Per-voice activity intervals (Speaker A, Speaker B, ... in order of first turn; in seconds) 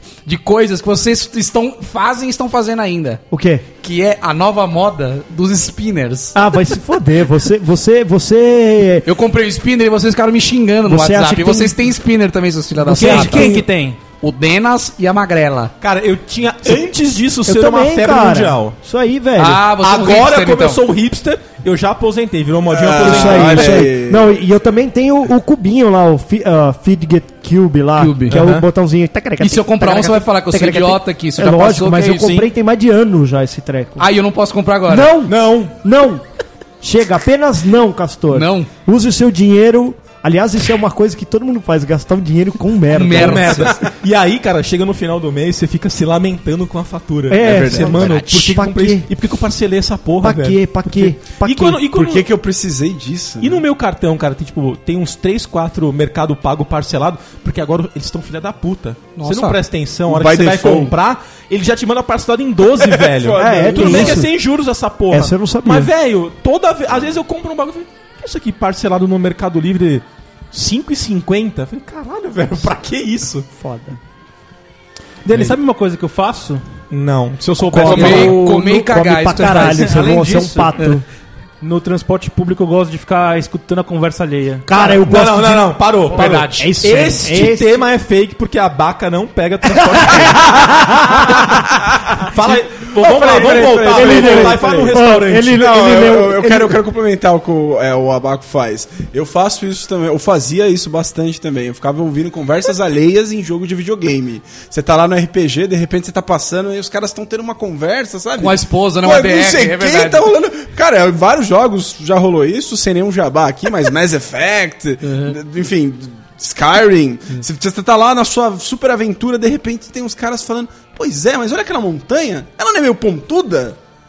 Speaker A: 0.2-3.2, 3.8-6.3, 9.0-13.6, 14.2-15.7, 19.4-20.8, 28.0-28.4, 29.4-32.5, 34.0-35.1, 38.3-38.7, 42.9-43.7, 59.1-59.6, 77.8-80.0, 86.1-87.1, 108.4-110.3, 115.0-115.3
Speaker B: 3.3-3.6, 6.3-9.1, 10.9-11.8, 13.0-13.6, 17.4-19.6, 23.0-34.1, 34.9-36.2, 36.8-43.6, 47.3-49.1, 50.2-51.8, 63.4-64.3, 65.1-65.9, 73.6-74.0, 77.7-81.0, 84.7-87.8, 89.7-91.5, 93.2-96.8
Speaker C: 12.8-14.0, 75.2-76.6, 77.7-78.5, 79.6-81.0, 81.6-84.9
Speaker D: 15.8-18.8, 19.8-23.9, 28.3-28.6, 35.2-35.8, 43.1-52.3, 53.4-73.5, 75.3-75.6, 76.9-78.4, 84.8-91.5, 92.2-95.7
Speaker E: 22.7-24.4, 47.4-48.1, 51.9-53.6, 60.1-60.9, 62.8-64.2, 92.4-95.0, 95.5-123.8